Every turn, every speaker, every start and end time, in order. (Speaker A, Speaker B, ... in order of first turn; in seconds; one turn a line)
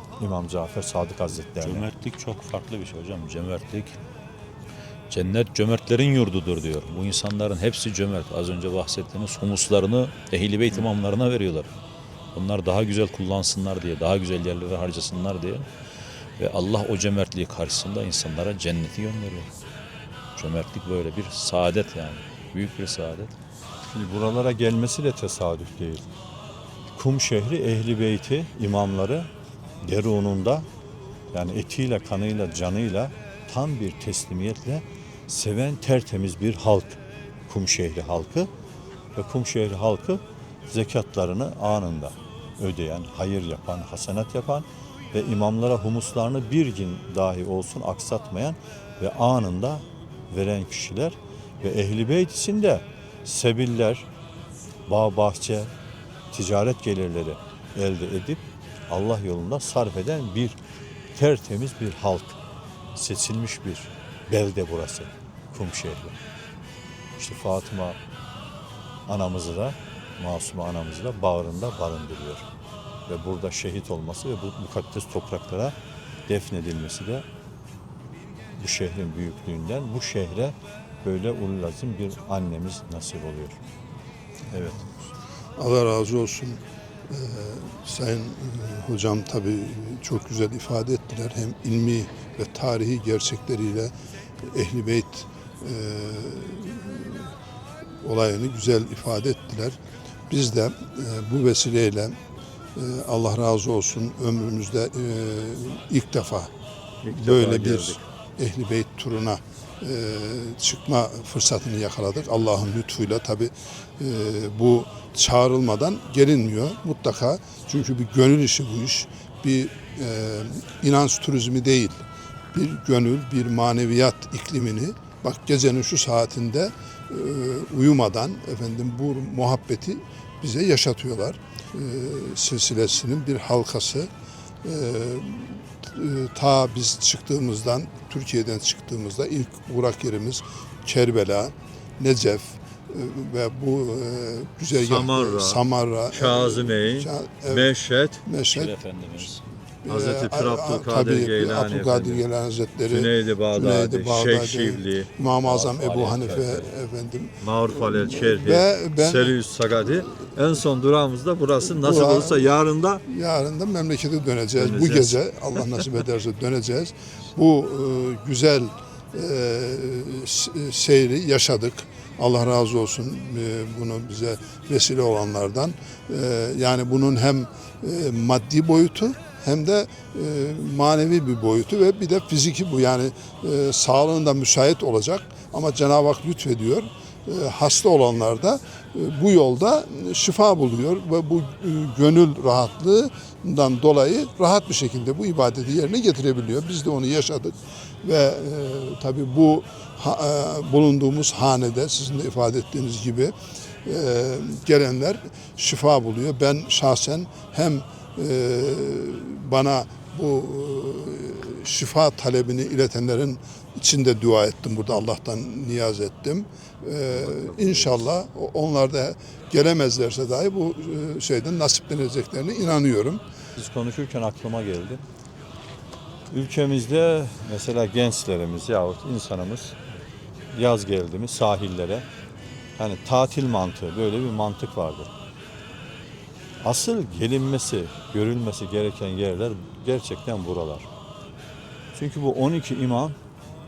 Speaker A: 0.2-1.9
Speaker B: 1.6-4.0
Speaker B: 5.1-11.7
Speaker B: 12.3-15.7
Speaker B: 16.4-19.5
Speaker B: 20.4-23.3
Speaker A: 23.9-26.1
Speaker A: 26.9-29.3
Speaker A: 29.8-30.7
Speaker A: 31.3-38.5
Speaker A: 39.1-54.1
Speaker A: 54.9-55.7
Speaker A: 56.3-60.6
Speaker A: 61.1-62.4
Speaker A: 63.0-66.2
Speaker A: 67.2-68.0
Speaker A: 69.1-72.5
Speaker A: 73.1-75.7
Speaker A: 76.3-77.2
Speaker A: 78.5-83.6
Speaker A: 84.5-84.9
Speaker C: 85.6-93.9
Speaker C: 94.4-97.3
Speaker C: 98.0-99.8
Speaker C: 100.3-102.1
Speaker C: 102.8-106.5
Speaker A: 107.0-108.0
Speaker C: 107.1-122.0
Speaker C: 122.5-134.1
Speaker C: 134.6-147.7
Speaker A: 144.7-148.2
Speaker C: 148.2-149.3
Speaker B: 148.4-149.4
Speaker C: 149.8-159.4
Speaker A: 149.9-152.2
Speaker A: 152.8-156.7
Speaker A: 157.4-163.0
Speaker C: 161.8-162.5
Speaker C: 163.1-223.2
Speaker A: 164.6-165.2
Speaker A: 217.1-218.0
Speaker A: 223.5-225.1
Speaker A: 226.3-229.8
Speaker A: 230.5-232.0
Speaker A: 232.8-235.1
Speaker A: 236.6-240.9
Speaker A: 241.9-243.2